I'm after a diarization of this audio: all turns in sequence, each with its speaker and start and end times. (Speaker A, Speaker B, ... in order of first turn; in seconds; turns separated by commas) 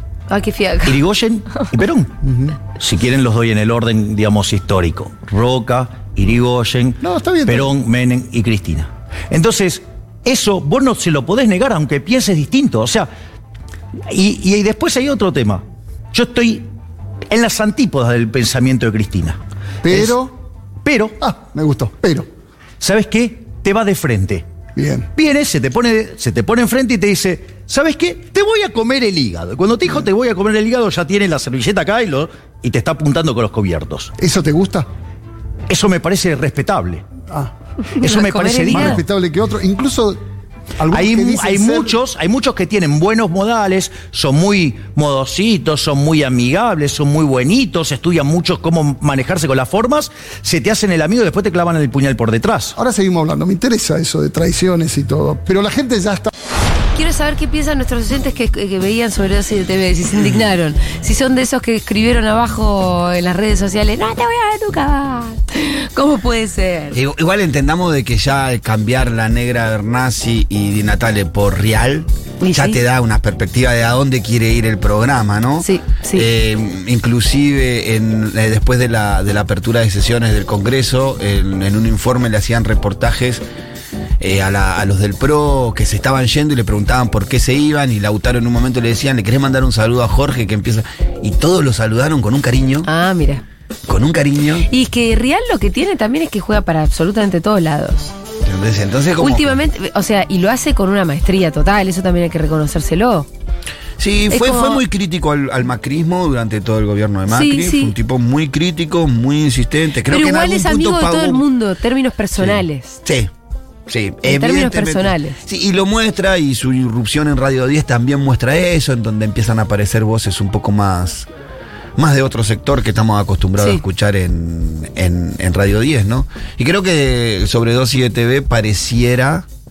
Speaker A: 0.3-1.0, Speaker B: 0.8-2.2, Speaker C: 2.2-2.6, Speaker B: 2.7-13.1, Speaker C: 7.0-7.7, Speaker B: 14.1-16.7, Speaker B: 17.3-20.2, Speaker C: 19.8-20.4, Speaker B: 20.8-21.1, Speaker C: 21.2-22.3, Speaker B: 22.8-24.4, Speaker C: 24.7-25.1, Speaker B: 25.1-34.1, Speaker C: 34.2-34.9, Speaker B: 35.7-37.0, Speaker A: 37.9-39.0, Speaker B: 38.0-39.0, Speaker C: 38.7-40.2, Speaker C: 40.8-42.0, Speaker B: 40.9-52.8, Speaker C: 52.8-56.3, Speaker A: 56.9-67.0, Speaker D: 66.9-83.4, Speaker A: 72.4-72.8, Speaker A: 75.6-76.3, Speaker D: 84.2-92.9, Speaker A: 92.8-93.4, Speaker D: 93.9-94.7, Speaker A: 94.7-98.1, Speaker D: 98.4-99.6, Speaker A: 99.2-103.3, Speaker D: 104.0-111.4, Speaker A: 104.3-104.8, Speaker A: 107.3-107.9, Speaker A: 110.1-113.0, Speaker D: 112.4-113.3, Speaker D: 113.9-121.3, Speaker A: 114.2-115.4, Speaker D: 122.0-129.4